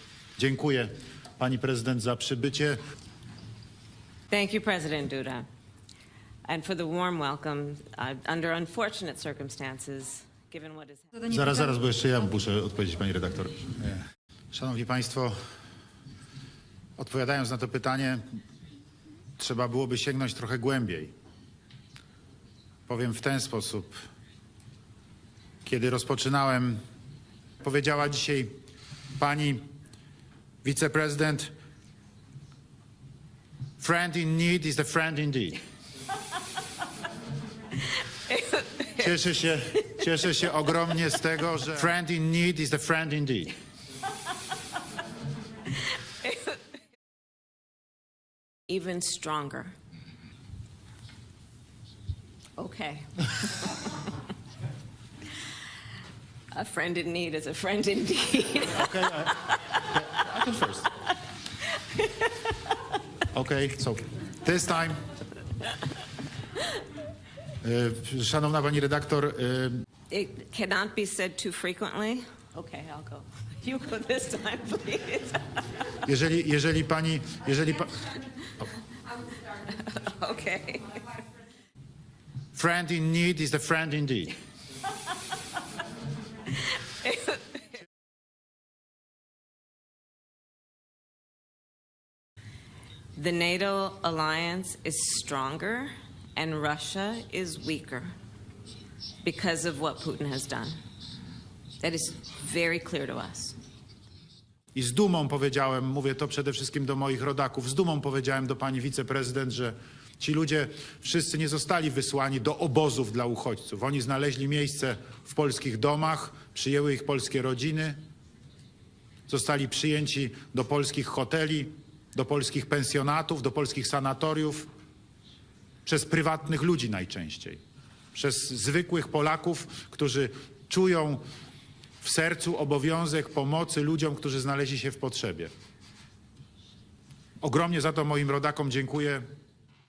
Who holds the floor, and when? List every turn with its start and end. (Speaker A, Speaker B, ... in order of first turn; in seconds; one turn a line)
Speaker A: 0.4-2.8
Speaker B: 4.3-5.4
Speaker B: 6.5-11.2
Speaker A: 11.2-15.3
Speaker A: 17.0-18.2
Speaker A: 19.4-21.1
Speaker A: 22.9-23.9
Speaker A: 25.6-26.8
Speaker A: 27.6-28.5
Speaker A: 29.2-29.6
Speaker A: 30.6-31.5
Speaker A: 33.8-35.6
Speaker B: 37.9-40.0
Speaker A: 38.9-43.5
Speaker B: 46.2-46.6
Speaker B: 48.7-49.7
Speaker B: 52.6-54.1
Speaker B: 56.5-60.1
Speaker A: 58.7-60.9
Speaker B: 61.6-62.8
Speaker A: 63.3-65.0
Speaker A: 67.6-69.8
Speaker B: 70.1-75.6
Speaker A: 76.0-78.2
Speaker B: 79.4-81.2
Speaker A: 82.5-84.4
Speaker B: 86.6-87.6
Speaker B: 93.2-98.1
Speaker B: 99.2-100.8
Speaker B: 101.8-103.6
Speaker A: 104.7-118.0
Speaker A: 119.3-124.7
Speaker A: 125.8-127.6
Speaker A: 128.1-131.2
Speaker A: 132.0-135.5
Speaker A: 137.4-139.2